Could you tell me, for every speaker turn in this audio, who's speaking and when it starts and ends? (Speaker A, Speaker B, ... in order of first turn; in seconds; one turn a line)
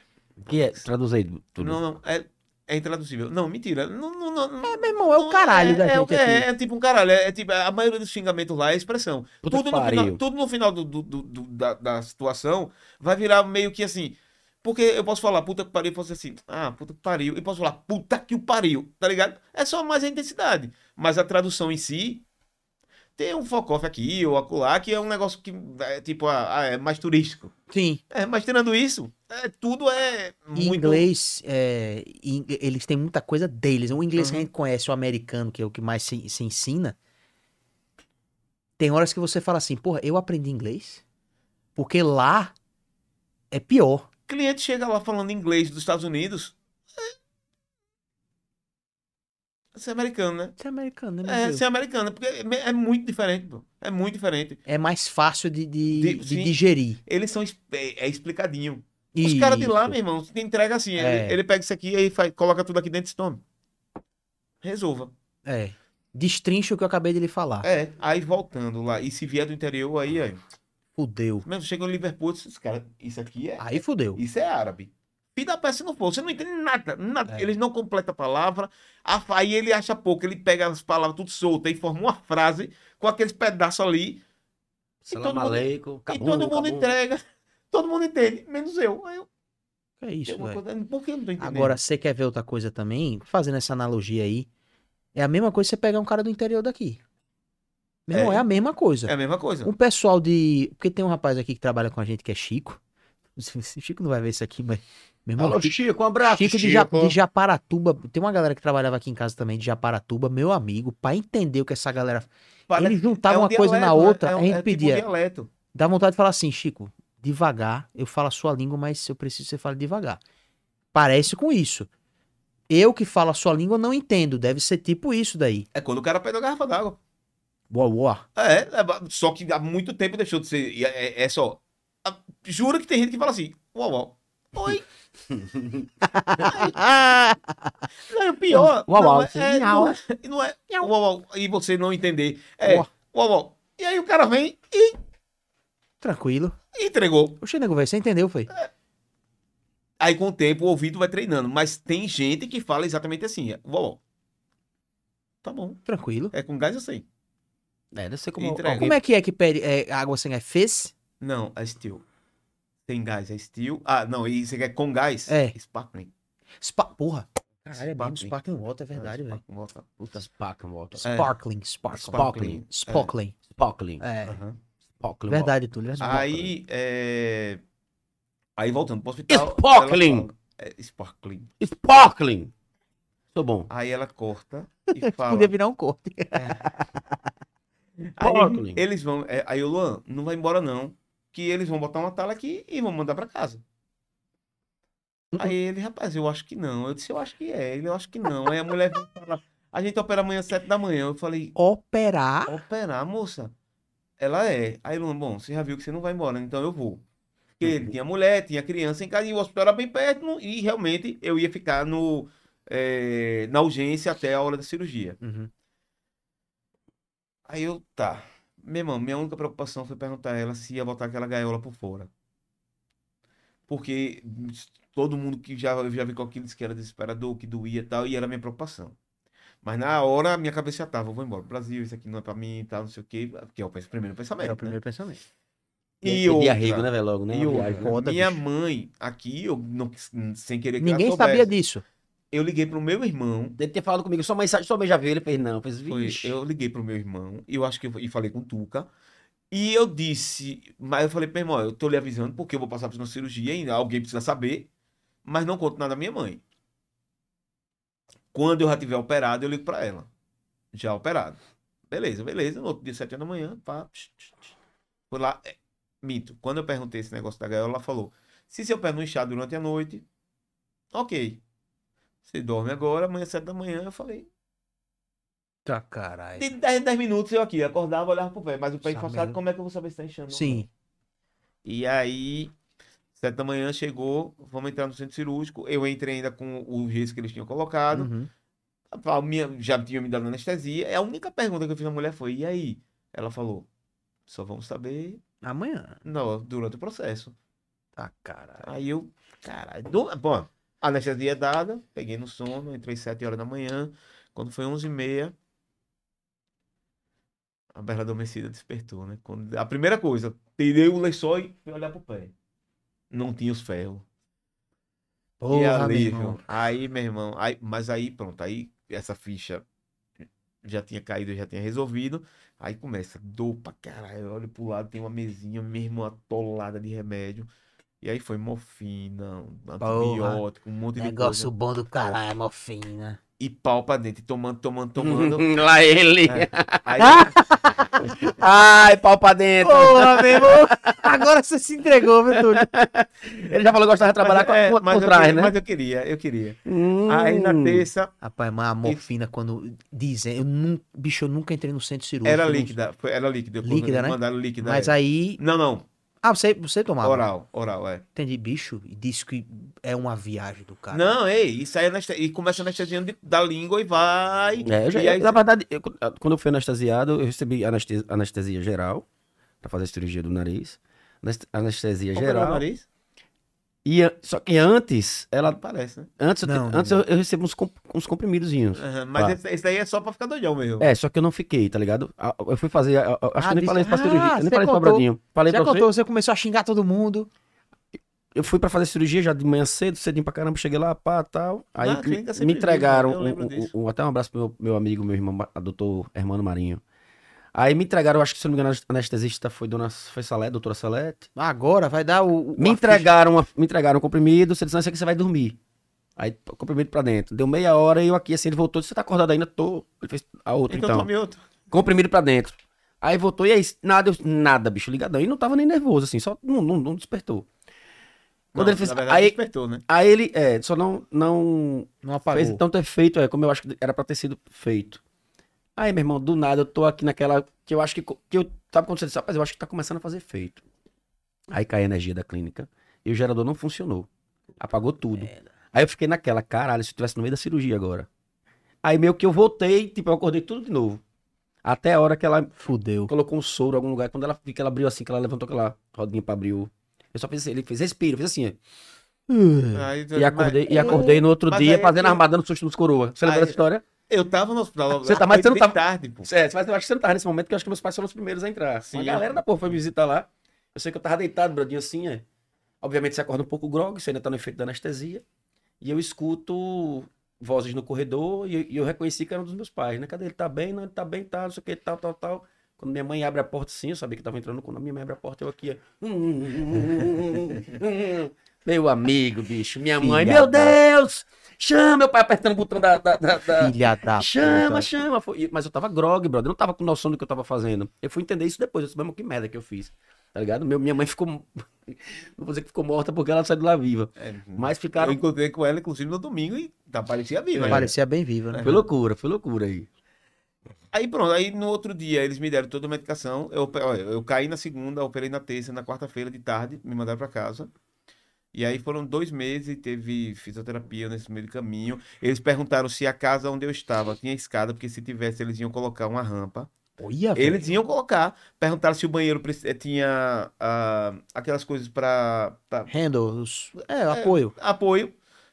Speaker A: 0.4-1.8
Speaker B: 1.6-22.2
Speaker C: 4.6-6.5
Speaker A: 9.4-10.2
Speaker B: 23.2-27.5
Speaker C: 27.7-28.0
Speaker B: 28.1-31.1
Speaker C: 30.5-37.0
Speaker B: 34.2-34.5
Speaker C: 38.8-41.0
Speaker C: 41.8-42.5
Speaker C: 43.5-44.0
Speaker B: 44.3-47.1
Speaker B: 49.7-50.5
Speaker C: 50.6-51.6
Speaker B: 51.2-54.6
Speaker C: 54.7-57.0
Speaker B: 55.9-63.4
Speaker C: 59.1-60.0
Speaker C: 61.0-61.4
Speaker B: 64.6-65.1
Speaker C: 65.5-67.7
Speaker B: 67.6-70.4
Speaker C: 71.0-71.5
Speaker B: 71.4-84.2
Speaker C: 73.6-74.2
Speaker A: 85.0-86.9
Speaker B: 85.1-89.3
Speaker C: 90.0-90.6
Speaker B: 90.3-91.8
Speaker C: 91.4-94.5
Speaker C: 95.1-97.0
Speaker C: 98.1-99.1
Speaker B: 98.1-98.5
Speaker B: 99.0-99.7
Speaker C: 99.6-102.8
Speaker C: 103.4-115.0
Speaker A: 105.4-107.0
Speaker B: 112.7-115.5
Speaker C: 115.7-120.2
Speaker C: 120.9-121.9
Speaker C: 122.7-125.7
Speaker B: 125.7-127.0
Speaker C: 127.7-128.2
Speaker B: 128.3-134.8
Speaker A: 135.3-135.9
Speaker C: 136.0-137.7
Speaker B: 136.4-136.8
Speaker B: 138.1-145.0
Speaker A: 138.6-139.9
Speaker C: 142.6-142.9
Speaker C: 146.0-146.6
Speaker B: 146.7-147.4
Speaker C: 147.4-148.5
Speaker B: 150.0-154.0
Speaker B: 155.4-157.1
Speaker C: 155.9-156.3
Speaker A: 157.9-158.9
Speaker B: 158.4-158.9
Speaker C: 158.8-160.9
Speaker B: 161.2-162.0
Speaker B: 162.8-166.1
Speaker C: 165.3-165.5
Speaker C: 166.6-169.4
Speaker B: 167.7-168.4
Speaker B: 168.9-170.0
Speaker A: 170.0-171.1
Speaker C: 171.0-173.3
Speaker B: 171.0-171.3
Speaker B: 171.9-173.1
Speaker A: 172.1-172.6
Speaker A: 173.5-174.0
Speaker C: 174.0-174.4
Speaker B: 174.2-174.6
Speaker A: 175.0-175.5
Speaker C: 175.3-176.5
Speaker B: 176.0-177.6
Speaker B: 178.6-181.5
Speaker A: 179.3-180.3
Speaker A: 181.6-182.5
Speaker A: 183.3-183.7
Speaker B: 183.7-185.5
Speaker C: 184.9-187.0
Speaker B: 186.3-186.6
Speaker B: 188.2-193.6
Speaker A: 188.2-188.8
Speaker B: 195.3-201.5
Speaker C: 201.6-202.6
Speaker B: 202.5-203.5
Speaker B: 204.2-207.0
Speaker B: 207.6-215.2
Speaker C: 215.2-215.5
Speaker B: 217.5-222.1
Speaker B: 223.7-229.0
Speaker B: 229.6-234.8
Speaker C: 234.4-235.2
Speaker B: 236.0-241.5
Speaker A: 236.0-237.9
Speaker C: 237.5-238.4
Speaker C: 240.8-241.8
Speaker B: 242.3-243.5
Speaker A: 243.6-246.3
Speaker B: 245.9-248.9
Speaker B: 249.5-254.7
Speaker B: 255.2-256.4
Speaker B: 258.3-260.1
Speaker B: 260.7-264.5
Speaker B: 265.1-270.0
Speaker B: 270.9-271.4
Speaker B: 272.2-274.3
Speaker C: 275.6-276.5
Speaker B: 276.4-280.7
Speaker C: 278.8-279.4
Speaker C: 280.3-280.7
Speaker B: 281.6-282.5
Speaker B: 283.1-288.1
Speaker C: 287.9-288.3
Speaker B: 288.9-293.7
Speaker B: 294.3-295.2
Speaker C: 295.4-296.0
Speaker B: 296.0-297.4
Speaker C: 298.0-298.7
Speaker B: 298.6-305.3
Speaker B: 307.7-312.3
Speaker B: 313.1-314.0
Speaker C: 315.4-316.4
Speaker B: 315.5-319.6
Speaker B: 320.6-327.5
Speaker B: 328.0-331.5
Speaker C: 329.8-330.4
Speaker C: 331.0-333.2
Speaker B: 333.4-335.5
Speaker A: 335.0-337.3
Speaker B: 336.2-337.3
Speaker C: 337.0-338.1
Speaker A: 338.1-341.1
Speaker C: 339.6-342.6
Speaker A: 342.3-345.5
Speaker B: 344.2-348.1
Speaker A: 346.6-347.9
Speaker C: 348.2-352.7
Speaker B: 352.2-355.9
Speaker C: 353.6-355.4
Speaker C: 356.2-357.3
Speaker B: 357.0-358.0
Speaker C: 358.1-361.1
Speaker B: 360.9-365.4
Speaker A: 364.6-369.0
Speaker A: 369.6-372.6
Speaker B: 372.1-372.9
Speaker A: 373.8-375.6
Speaker B: 375.5-376.1
Speaker A: 376.2-379.4
Speaker C: 376.4-377.0
Speaker B: 378.8-380.9
Speaker A: 380.8-385.9
Speaker C: 383.4-387.3
Speaker A: 388.3-396.8
Speaker B: 391.8-393.7
Speaker A: 397.5-401.3
Speaker C: 401.4-403.1
Speaker A: 402.6-405.6
Speaker A: 406.2-411.1
Speaker B: 410.7-411.4
Speaker A: 411.7-417.5
Speaker B: 418.5-419.8
Speaker A: 418.5-419.3
Speaker A: 419.9-425.0
Speaker C: 422.0-422.6
Speaker A: 425.8-430.6
Speaker A: 431.5-434.1
Speaker A: 434.6-438.1
Speaker A: 438.8-441.0
Speaker A: 441.6-442.5
Speaker C: 442.6-443.1
Speaker A: 443.1-448.6
Speaker C: 449.3-451.2
Speaker B: 449.7-452.2
Speaker A: 450.1-453.8
Speaker B: 453.2-456.3
Speaker A: 455.0-462.2
Speaker B: 458.9-459.4
Speaker A: 462.8-465.2
Speaker A: 465.8-495.2
Speaker C: 480.0-480.8
Speaker C: 483.5-484.9
Speaker B: 494.2-497.9
Speaker A: 497.5-497.9
Speaker C: 497.7-498.6
Speaker B: 498.5-498.8
Speaker A: 498.6-499.9
Speaker B: 500.9-507.7
Speaker B: 508.5-516.7
Speaker C: 517.0-517.8
Speaker B: 517.4-522.9
Speaker C: 522.9-524.5
Speaker B: 524.1-525.1